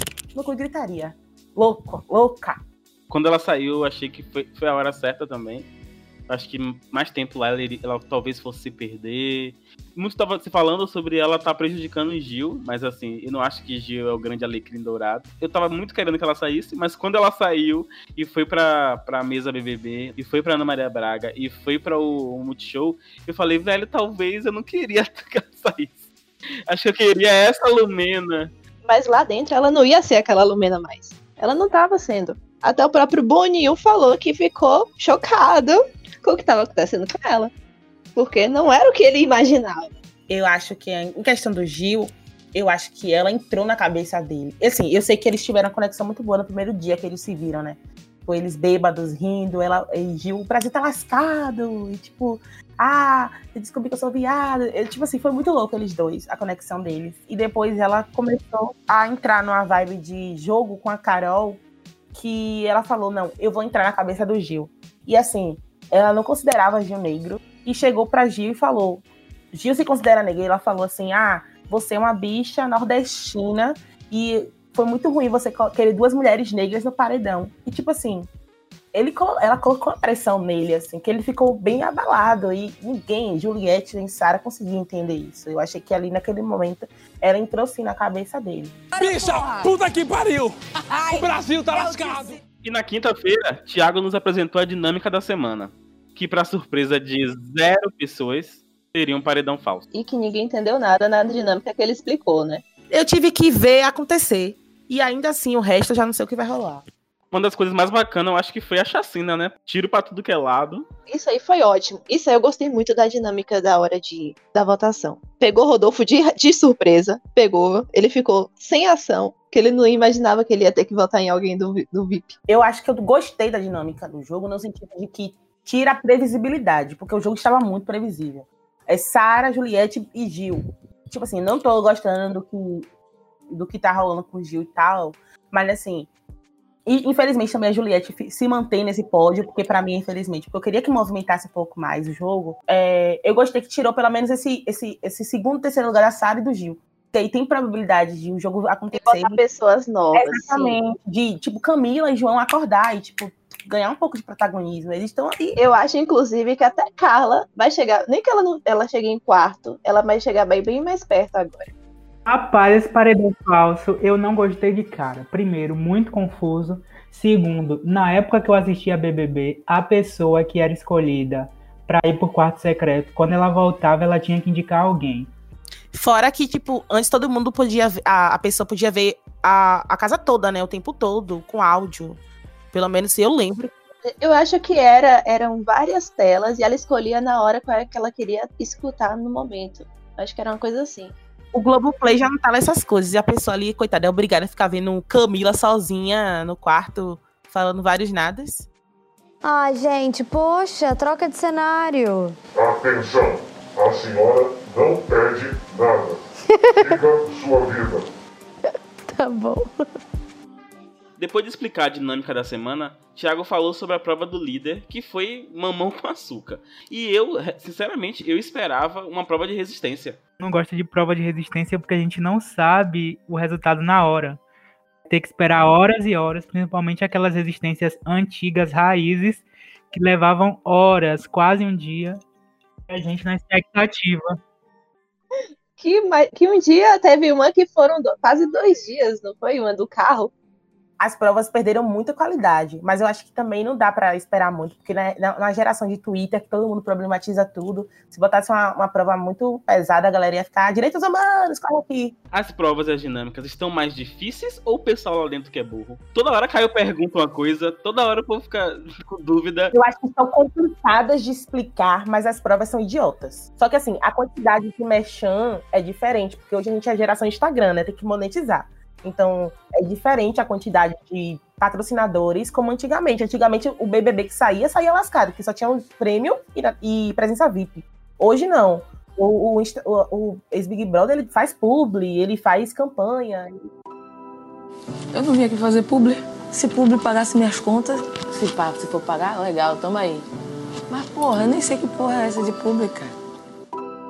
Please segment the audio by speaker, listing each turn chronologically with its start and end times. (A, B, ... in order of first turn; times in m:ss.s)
0:00.3-0:02.6 A
0:03.1-0:05.7 B
0:06.3-0:26.0 B
0:26.7-0:28.5 B
0:28.9-0:37.5 C
0:38.2-0:40.0 C
0:40.3-1:01.6 A
1:02.1-1:18.3 A
1:18.9-1:28.7 A
1:29.0-1:32.4 D
1:32.6-1:39.8 B
1:39.9-1:42.6 C
1:42.9-1:46.8 A
1:47.3-1:50.9 B
1:51.1-2:02.4 C
2:02.5-2:12.9 A
2:13.5-2:16.1 A
2:16.9-2:29.4 A
2:29.0-2:30.8 C
2:30.2-2:35.5 A
2:35.5-2:41.7 C
2:42.3-2:55.3 E
2:55.9-3:02.2 A
3:02.7-3:03.7 A
3:04.1-3:11.2 C
3:11.5-3:18.7 A
3:19.4-3:22.4 F
3:22.6-3:26.2 G
3:26.6-3:27.0 F
3:26.8-3:28.1 G
3:28.7-3:29.8 F
3:31.2-3:40.2 B
3:40.4-3:44.4 E
3:45.1-3:52.2 E
3:52.9-3:54.4 E
3:55.8-4:00.3 C
4:01.0-4:12.2 A
4:12.3-4:19.7 B
4:19.7-4:43.6 A
4:45.1-4:50.2 H
4:50.9-4:53.1 H